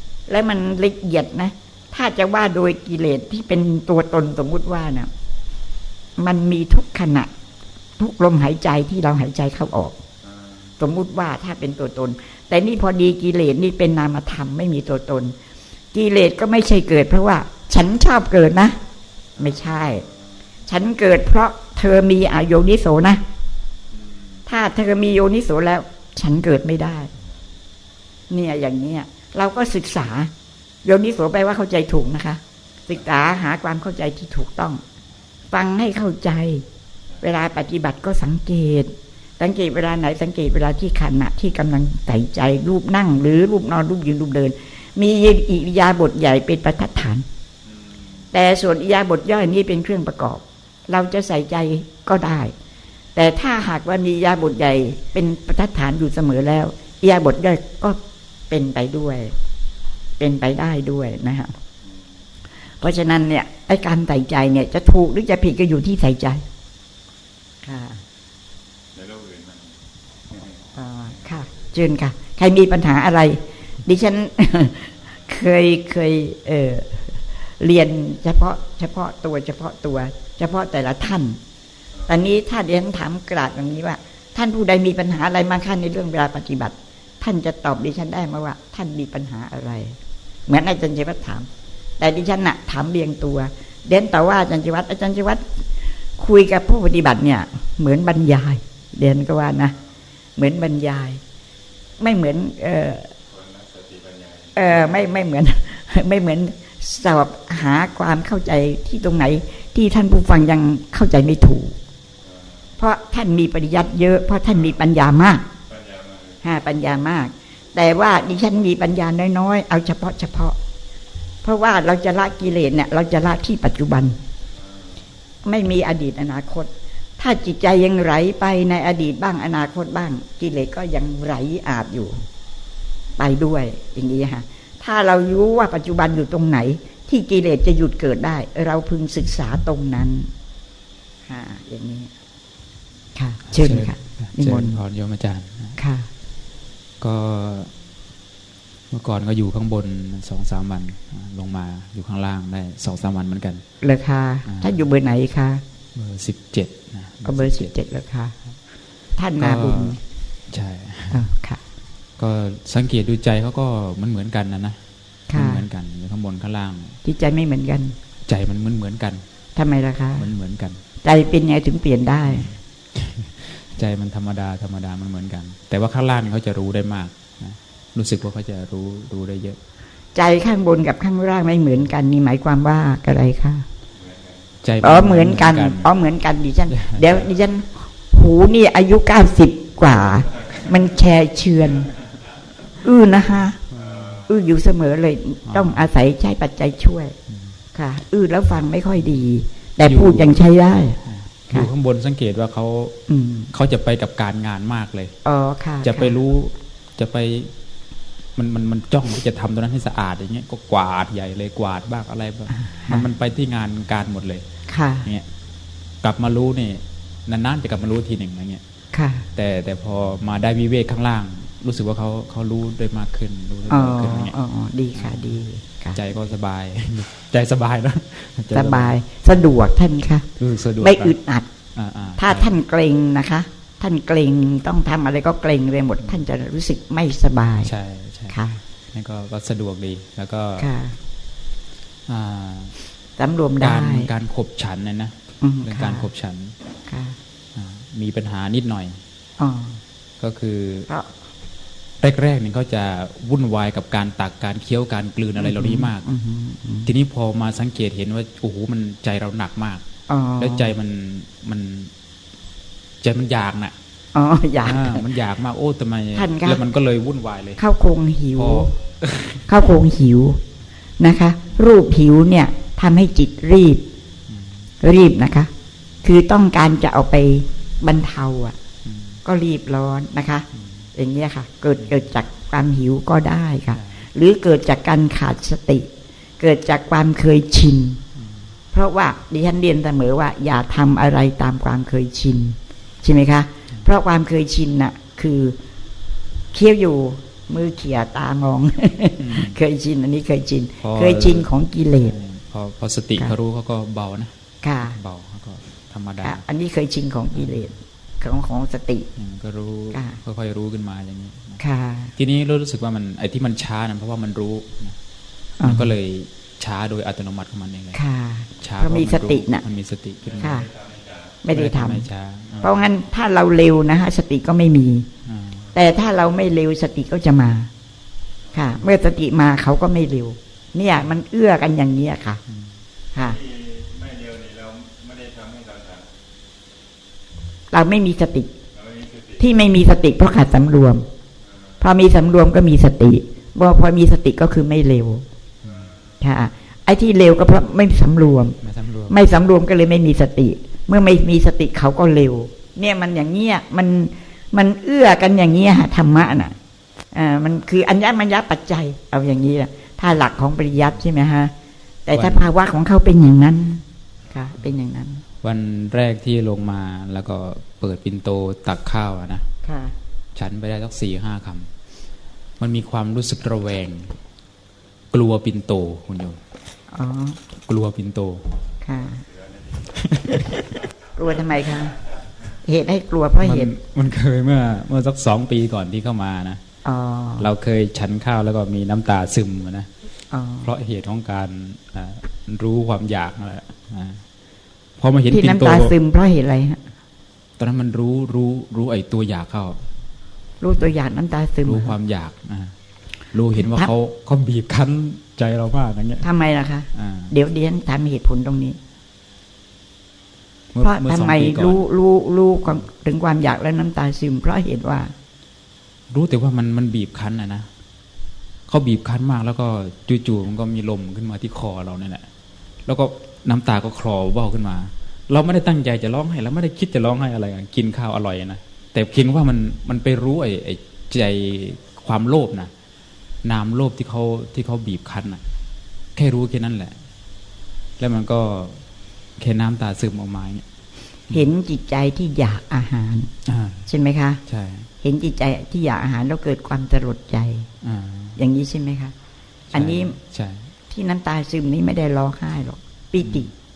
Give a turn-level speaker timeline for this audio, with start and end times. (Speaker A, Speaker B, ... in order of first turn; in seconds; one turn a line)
Speaker A: 0.3-5.1
Speaker A: 6.2-7.3
Speaker A: 8.0-10.0
Speaker B: 10.2-10.7
Speaker A: 10.8-15.3
Speaker A: 15.9-18.8
Speaker B: 19.4-19.8
Speaker A: 19.4-20.0
Speaker A: 20.7-23.2
Speaker B: 23.9-24.4
Speaker A: 24.4-27.1
Speaker A: 28.3-30.3
Speaker A: 30.8-34.8
Speaker A: 35.5-36.6
Speaker A: 37.2-47.2
Speaker B: 47.7-48.2
Speaker A: 48.3-52.5
Speaker A: 53.1-58.0
Speaker A: 58.5-59.3
Speaker A: 60.2-61.5
Speaker A: 62.8-66.4
Speaker A: 67.6-68.0
Speaker B: 68.9-69.8
Speaker B: 70.3-70.6
Speaker A: 70.7-81.4
Speaker A: 82.1-95.5
Speaker A: 96.2-99.7
Speaker A: 100.4-101.2
Speaker A: 102.0-103.1
Speaker B: 103.3-105.0
Speaker A: 104.5-111.8
Speaker B: 112.2-112.8
Speaker A: 112.8-115.5
Speaker B: 115.7-116.4
Speaker A: 116.4-120.6
Speaker A: 121.4-124.2
Speaker B: 124.5-125.0
Speaker A: 125.4-132.2
Speaker A: 133.2-140.3
Speaker A: 141.3-142.1
Speaker A: 143.2-144.8
Speaker C: 143.5-145.8
Speaker A: 145.8-146.1
Speaker C: 147.0-147.7
Speaker C: 148.9-153.6
Speaker A: 153.8-155.6
Speaker C: 154.4-154.8
Speaker C: 155.9-157.7
Speaker A: 157.2-158.3
Speaker A: 159.2-160.0
Speaker C: 159.4-160.0
Speaker C: 160.5-161.2
Speaker A: 161.1-161.6
Speaker C: 162.2-164.8
Speaker A: 165.3-165.6
Speaker C: 165.3-167.0
Speaker A: 167.0-167.9
Speaker C: 168.2-169.2
Speaker A: 169.6-170.3
Speaker C: 170.2-170.8
Speaker A: 171.0-172.5
Speaker C: 172.2-179.6
Speaker A: 180.1-183.7
Speaker B: 183.9-184.5
Speaker C: 184.6-185.9
Speaker A: 184.8-191.9
Speaker C: 186.7-187.3
Speaker A: 192.8-193.6
Speaker B: 193.7-194.3
Speaker C: 193.7-194.1
Speaker A: 194.3-197.1
Speaker C: 195.5-195.8
Speaker C: 197.3-197.6
Speaker A: 197.7-201.0
Speaker C: 199.8-200.4
Speaker C: 201.0-203.0
Speaker A: 203.1-203.5
Speaker C: 203.5-205.1
Speaker A: 205.2-206.1
Speaker C: 205.8-207.5
Speaker C: 208.3-214.4
Speaker A: 212.5-213.1
Speaker A: 214.7-215.1
Speaker C: 216.0-218.6
Speaker A: 218.9-219.2
Speaker C: 219.3-224.3
Speaker A: 223.7-226.0
Speaker C: 224.9-225.3
Speaker C: 225.9-228.9
Speaker A: 228.5-230.3
Speaker C: 230.4-231.1
Speaker A: 230.8-231.5
Speaker C: 231.7-232.5
Speaker A: 232.2-237.7
Speaker C: 237.6-238.4
Speaker A: 238.3-238.6
Speaker C: 238.9-240.7
Speaker A: 240.6-241.0
Speaker C: 242.1-242.7
Speaker A: 243.2-244.1
Speaker C: 243.6-246.5
Speaker A: 245.4-246.1
Speaker A: 246.9-247.2
Speaker C: 247.5-249.0
Speaker A: 249.4-249.8
Speaker C: 250.2-250.9
Speaker C: 252.0-256.1
Speaker A: 255.4-256.9
Speaker C: 256.9-259.8
Speaker A: 260.1-260.7
Speaker C: 260.4-261.9
Speaker C: 263.0-263.7
Speaker A: 264.1-265.1
Speaker C: 264.6-267.6
Speaker A: 266.1-266.6
Speaker A: 267.6-268.7
Speaker C: 268.4-269.5
Speaker A: 269.5-270.4
Speaker A: 271.0-273.8
Speaker C: 274.3-274.7
Speaker A: 274.8-275.5
Speaker A: 276.0-278.6
Speaker C: 278.8-279.2
Speaker A: 279.2-285.9
Speaker C: 280.5-280.9
Speaker C: 283.7-284.1
Speaker A: 286.4-288.0
Speaker C: 288.1-288.5
Speaker A: 288.7-295.6
Speaker A: 296.5-302.1
Speaker C: 299.2-299.5
Speaker C: 300.8-301.5
Speaker C: 302.1-306.4
Speaker A: 304.6-305.0
Speaker A: 306.2-309.1
Speaker C: 309.1-311.6
Speaker A: 309.9-310.2
Speaker A: 311.6-312.1
Speaker C: 312.1-314.9
Speaker A: 315.6-315.9
Speaker C: 315.6-318.0
Speaker A: 317.9-319.6
Speaker C: 318.6-320.7
Speaker B: 320.2-321.4
Speaker A: 320.4-320.7
Speaker A: 321.4-322.0
Speaker C: 321.5-322.7
Speaker A: 322.6-325.1
Speaker C: 325.2-325.7
Speaker A: 325.7-327.7
Speaker A: 328.5-332.4
Speaker C: 332.5-332.7
Speaker A: 333.1-333.4
Speaker B: 333.2-336.1
Speaker A: 337.7-338.5
Speaker B: 338.7-339.4
Speaker A: 339.4-341.1
Speaker B: 341.4-341.8
Speaker A: 341.8-345.2
Speaker B: 345.7-346.0
Speaker A: 346.2-348.6
Speaker C: 348.6-349.2
Speaker A: 349.1-356.5
Speaker A: 357.1-361.5
Speaker A: 362.1-365.2
Speaker C: 362.1-362.5
Speaker C: 365.4-369.5
Speaker A: 369.6-369.9
Speaker C: 370.3-371.7
Speaker C: 372.6-374.1
Speaker C: 375.1-376.4
Speaker A: 376.9-377.4
Speaker C: 377.6-378.5
Speaker A: 378.8-379.2
Speaker C: 379.9-380.6
Speaker A: 381.1-382.0
Speaker A: 382.6-383.7
Speaker C: 383.4-386.6
Speaker A: 386.8-387.5
Speaker C: 387.4-389.9
Speaker A: 390.3-390.7
Speaker C: 390.6-394.2
Speaker C: 395.0-395.9
Speaker A: 395.3-396.8
Speaker C: 397.6-399.8
Speaker A: 400.6-401.9
Speaker C: 401.6-402.7
Speaker C: 403.3-406.2
Speaker A: 403.6-403.9
Speaker A: 406.2-408.8
Speaker C: 406.9-407.3
Speaker C: 410.7-411.8
Speaker A: 410.8-415.1
Speaker C: 416.1-417.7
Speaker C: 418.7-422.3
Speaker C: 422.9-432.7
Speaker C: 433.4-435.4
Speaker C: 436.1-437.0
Speaker C: 438.0-438.8
Speaker C: 439.4-440.6
Speaker A: 441.3-443.3
Speaker C: 443.4-443.8
Speaker A: 443.9-444.4
Speaker C: 444.5-444.9
Speaker A: 445.0-447.7
Speaker C: 447.8-448.4
Speaker A: 448.4-449.1
Speaker C: 449.7-450.7
Speaker A: 449.7-450.1
Speaker A: 450.9-453.5
Speaker C: 453.2-453.5